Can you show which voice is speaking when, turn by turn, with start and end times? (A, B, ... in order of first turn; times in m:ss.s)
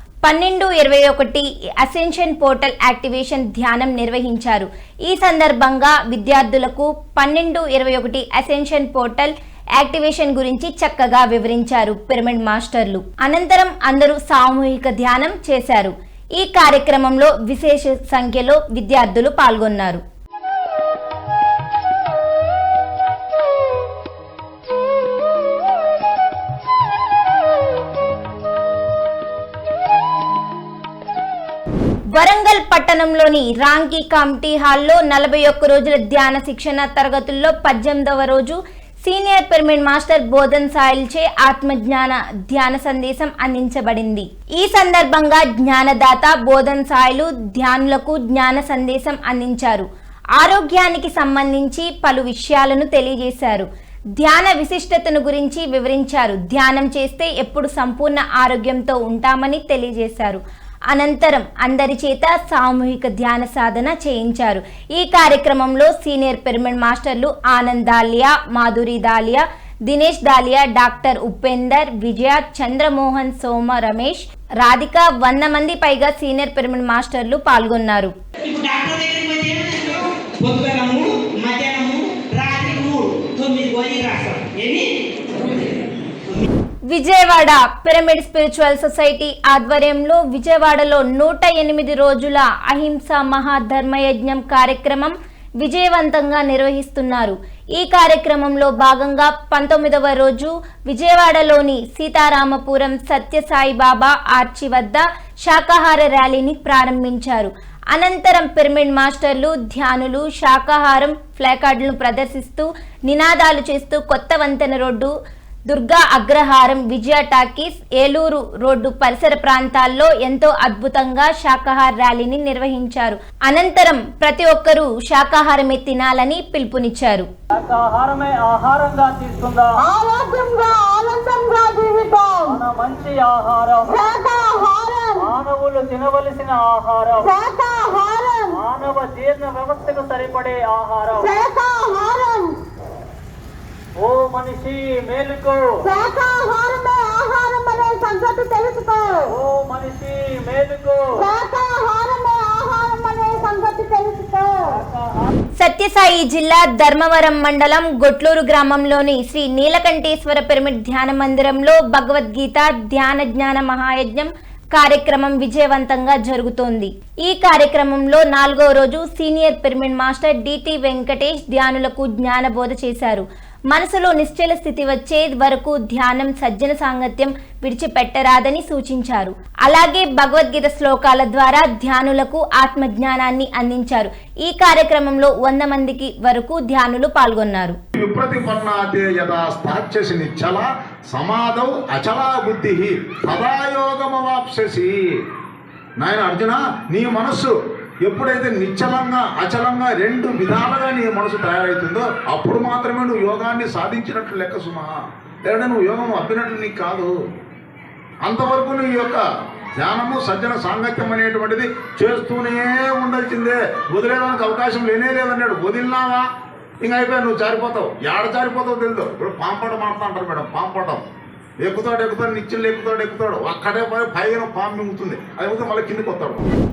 0:00.2-0:20.0 A
0:32.1-0:49.9 A
0:50.4-1:18.1 A
1:18.5-1:25.8 B
1:26.9-1:55.1 A
1:55.7-2:07.3 A
2:07.5-2:09.8 C
2:09.8-2:12.5 D
2:12.4-2:13.9 C
2:13.9-2:15.2 D
2:15.2-2:17.2 C
2:17.2-2:18.5 D
2:18.5-2:21.3 C
2:21.2-2:22.5 D
2:24.0-2:25.8 C
2:25.9-2:29.2 D
2:29.2-2:31.2 C
2:31.2-2:34.8 D
2:34.8-2:35.1 C
2:35.6-3:07.8 A
3:08.0-3:15.1 E
3:16.0-3:27.1 E
3:28.2-3:29.2 E
3:29.8-3:36.2 E
3:36.8-3:41.0 E
3:41.6-3:46.4 E